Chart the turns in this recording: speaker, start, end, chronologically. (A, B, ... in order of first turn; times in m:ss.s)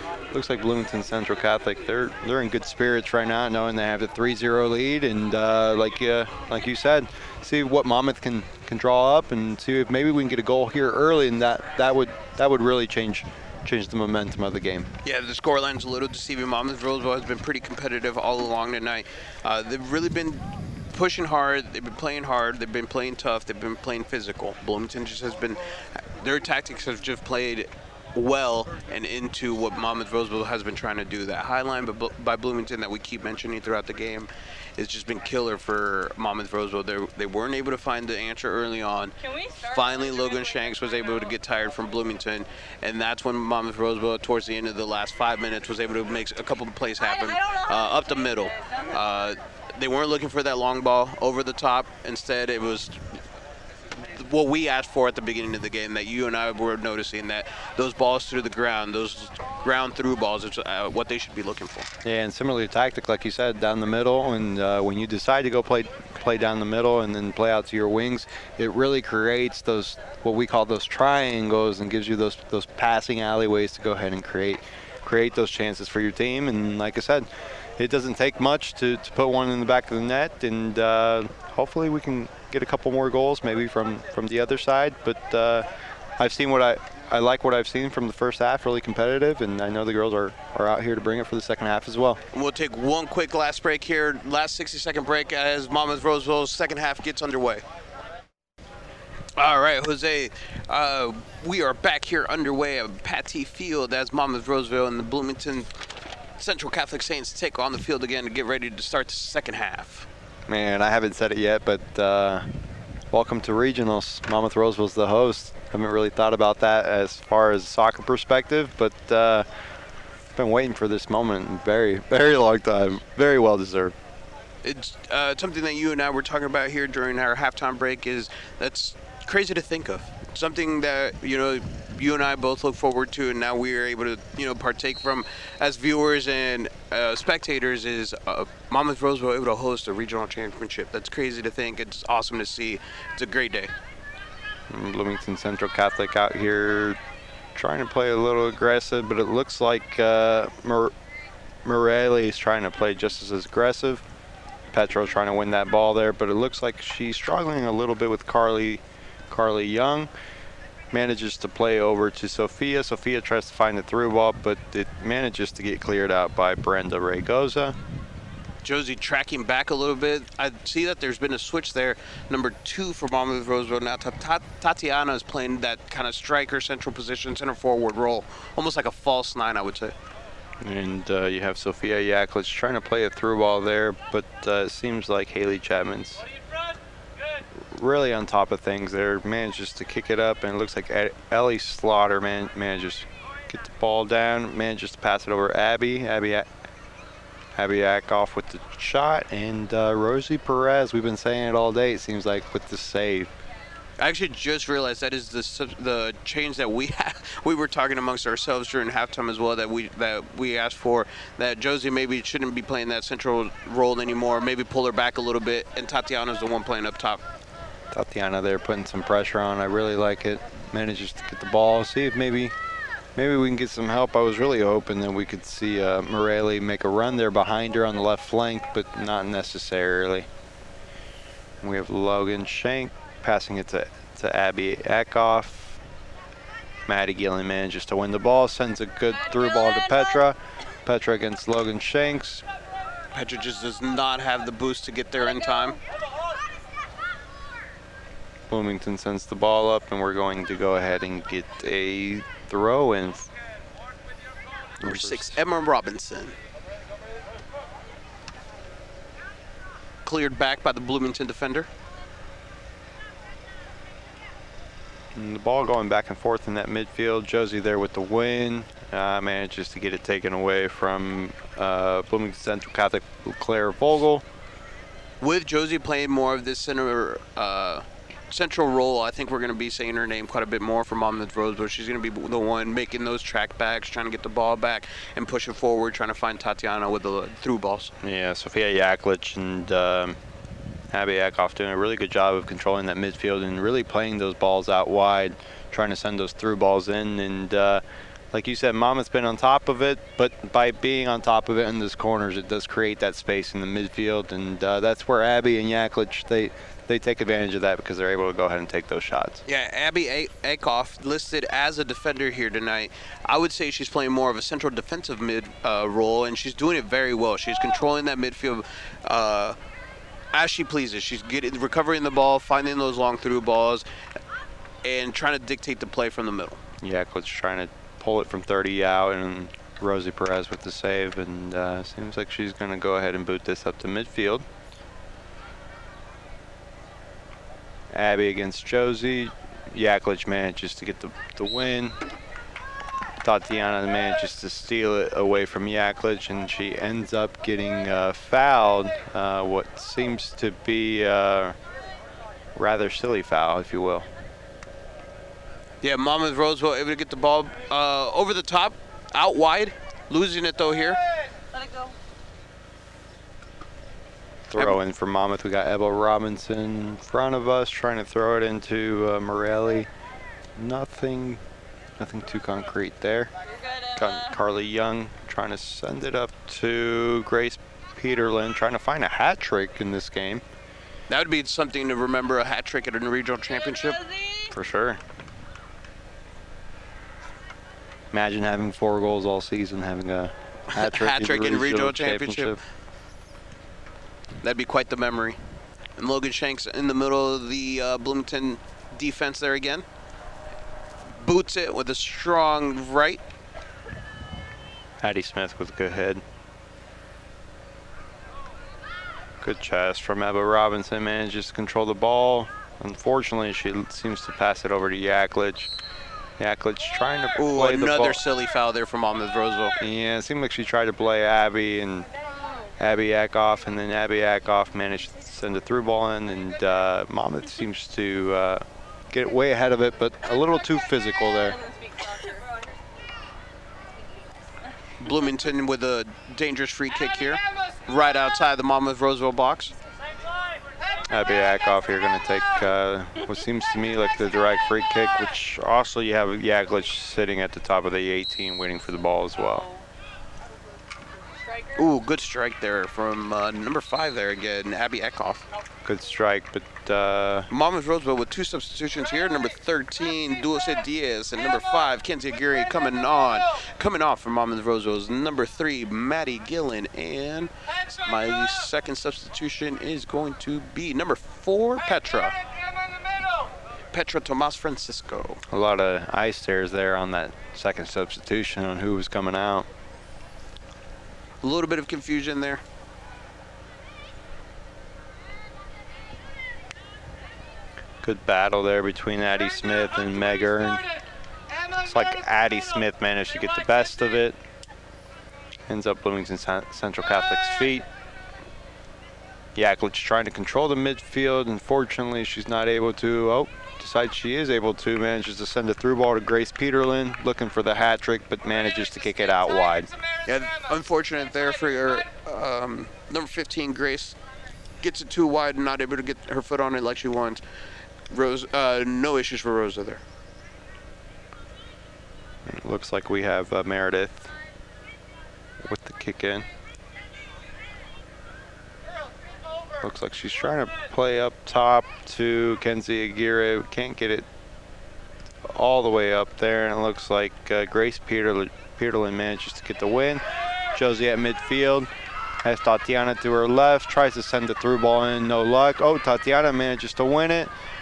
0:00.3-0:14.9 A
0:15.0-0:53.0 B
0:39.2-0:40.3 C
0:47.1-0:48.0 C
0:54.0-1:01.9 B
1:02.0-1:17.3 A
1:17.8-1:32.2 A
1:32.3-1:37.6 B
1:39.4-1:45.7 B
1:46.4-1:50.1 B
1:50.5-1:52.5 A
1:53.1-1:59.5 A
2:00.3-2:04.0 A
2:04.6-2:23.7 B
2:24.7-2:27.0 A
2:27.6-2:30.9 A
2:31.6-2:34.0 A
2:34.7-2:40.1 A
2:40.9-2:47.8 A
2:48.6-3:00.0 B
3:00.6-3:06.2 A
3:07.6-3:16.5 A
3:17.6-3:23.3 A
3:24.0-3:37.2 B
3:37.9-3:42.5 A
3:43.2-3:50.3 A
3:51.6-3:55.8 A
3:56.9-4:02.4 A
4:03.1-4:05.8 B
4:08.5-4:13.3 A
4:14.8-4:15.4 A
4:14.8-4:16.4 B
4:20.0-4:21.7 B
4:25.1-4:34.2 A
4:35.2-4:48.0 B
4:48.0-4:50.2 A
4:50.9-5:09.4 A
5:09.5-5:19.6 B
5:20.3-5:23.8 B
5:24.8-5:26.6 B
5:26.8-5:34.4 A
5:37.9-5:42.0 A
5:43.2-5:51.6 A
5:52.6-5:54.1 A
5:55.8-6:01.0 B
6:01.5-6:01.9 C
6:04.5-6:09.9 A
6:10.6-6:11.4 A
6:12.0-6:13.3 A
6:13.4-6:14.4 C
6:14.0-6:20.4 A
6:21.1-6:24.0 B
6:23.6-6:24.5 C
6:24.5-6:25.0 A
6:28.1-6:32.6 A
6:30.7-6:32.6 B
6:34.4-6:35.4 B
6:36.0-6:39.8 B
6:41.1-6:43.2 B
6:45.0-6:46.2 A
6:49.4-6:55.7 A
6:56.4-6:58.2 A
6:57.4-6:59.8 B
6:59.8-7:02.1 A
7:02.8-7:11.6 A
7:11.4-7:12.8 C
7:15.0-7:19.7 B
7:21.1-7:29.6 A
7:31.4-7:31.7 C
7:31.8-7:35.4 B
7:35.8-7:37.5 A
7:37.5-7:47.5 B
7:48.0-7:52.4 B
7:53.9-7:55.4 B
7:55.5-7:59.7 A
8:01.4-8:02.6 B
8:08.0-8:10.8 A
8:11.8-8:14.4 A
8:15.7-8:17.9 A
8:19.6-8:29.9 A
8:30.3-8:34.2 B
8:34.8-8:37.4 B
8:38.1-8:40.0 B
8:42.4-8:44.3 A
8:45.6-8:46.5 A
8:49.8-8:54.3 A
8:55.4-9:01.9 A
9:02.4-9:07.5 A